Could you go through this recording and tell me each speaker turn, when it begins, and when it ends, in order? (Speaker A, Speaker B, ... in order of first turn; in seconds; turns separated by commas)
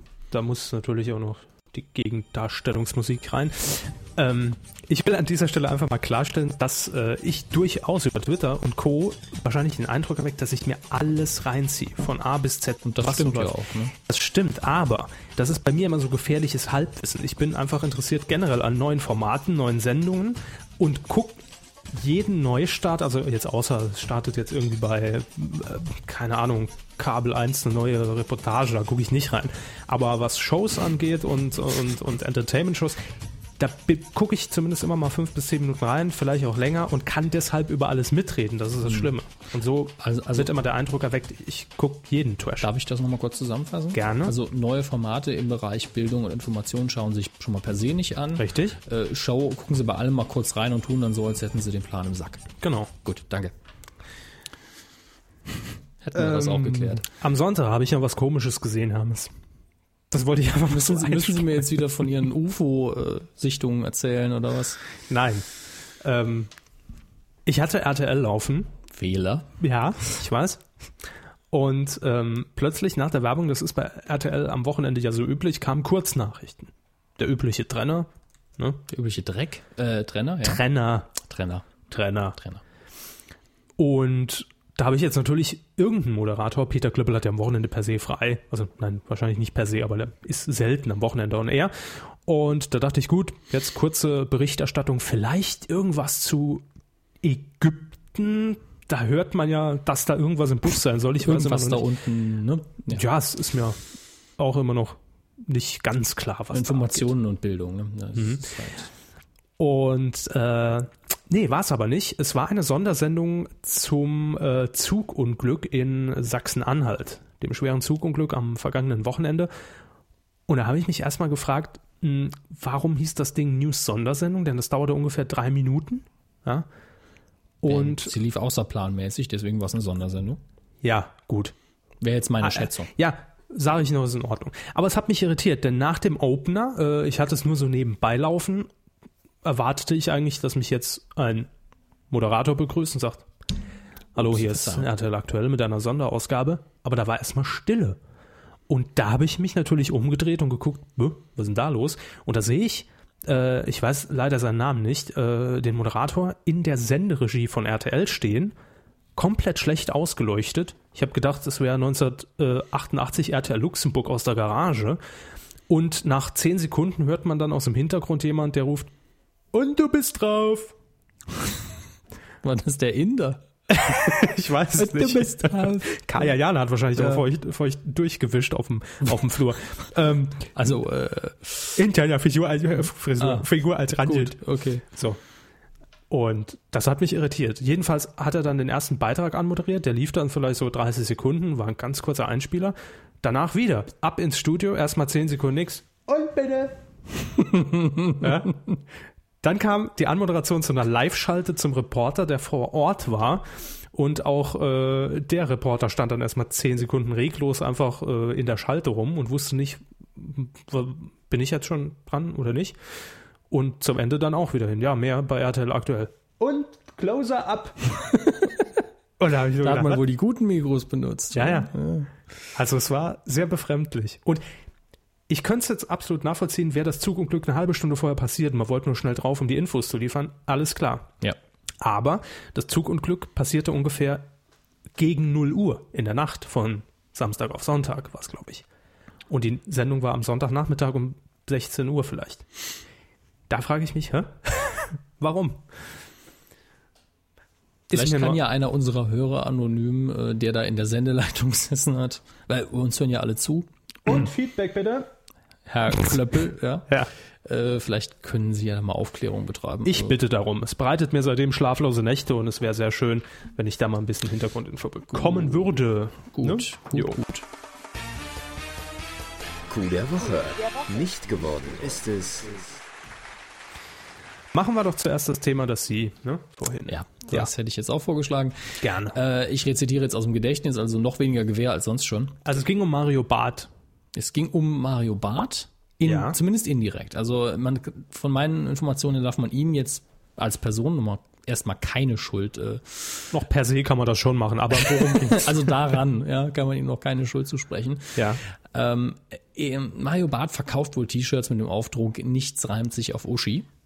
Speaker A: 0.3-13.5, Speaker B: 12.8-13.9, Speaker A: 14.1-33.0, Speaker A: 33.6-42.7, Speaker B: 40.0-40.5, Speaker B: 42.6-52.5, Speaker A: 43.9-44.3, Speaker A: 48.4-48.8, Speaker A: 52.6-52.9, Speaker B: 53.0-53.5, Speaker B: 56.0-57.0, Speaker A: 56.1-59.3, Speaker A: 60.1-61.7, Speaker B: 60.7-64.8, Speaker A: 65.1-65.4, Speaker A: 66.0-66.5, Speaker A: 67.5-68.7, Speaker B: 68.9-69.5, Speaker A: 69.6-70.6, Speaker A: 71.5-78.8, Speaker B: 78.9-80.6, Speaker A: 80.4-81.1, Speaker B: 81.2-81.7, Speaker A: 81.9-82.4, Speaker A: 83.8-96.6, Speaker A: 97.2-101.8, Speaker B: 101.2-103.0, Speaker A: 102.9-103.8, Speaker A: 104.4-107.1, Speaker B: 106.5-108.9, Speaker A: 108.2-108.4, Speaker A: 109.6-119.5, Speaker A: 120.5-126.7, Speaker A: 127.6-128.1, Speaker B: 127.6-130.4, Speaker A: 130.8-131.5, Speaker B: 132.0-132.9, Speaker A: 132.4-138.7, Speaker A: 139.4-141.5, Speaker A: 142.1-143.3, Speaker A: 144.1-148.0, Speaker B: 144.2-144.9, Speaker A: 148.7-158.5, Speaker A: 159.2-165.0, Speaker A: 165.7-168.9, Speaker A: 169.5-170.7, Speaker B: 172.4-174.2, Speaker A: 173.7-180.5, Speaker B: 174.8-176.3, Speaker B: 176.9-177.2, Speaker B: 180.5-181.7, Speaker A: 181.8-185.2, Speaker B: 183.2-184.8, Speaker A: 186.1-196.8, Speaker B: 197.4-198.2, Speaker A: 198.1-198.6, Speaker A: 199.4-212.7, Speaker A: 213.5-217.9, Speaker B: 218.2-218.5, Speaker A: 219.2-220.0, Speaker B: 219.6-222.1, Speaker A: 221.3-221.7, Speaker A: 222.5-224.4, Speaker A: 225.3-231.2, Speaker A: 231.8-234.3, Speaker A: 234.9-238.6, Speaker A: 239.3-242.4, Speaker A: 243.5-245.6, Speaker A: 247.9-248.4, Speaker B: 247.9-253.7, Speaker A: 254.1-255.1, Speaker B: 255.7-260.1, Speaker A: 259.9-267.2, Speaker B: 265.1-265.7, Speaker B: 266.3-267.4, Speaker C: 269.7-272.8, Speaker A: 274.5-277.5, Speaker B: 276.9-282.4, Speaker A: 278.8-279.1, Speaker A: 282.4-283.7, Speaker B: 284.1-293.3, Speaker A: 286.0-286.4, Speaker A: 293.3-295.7, Speaker B: 294.8-303.6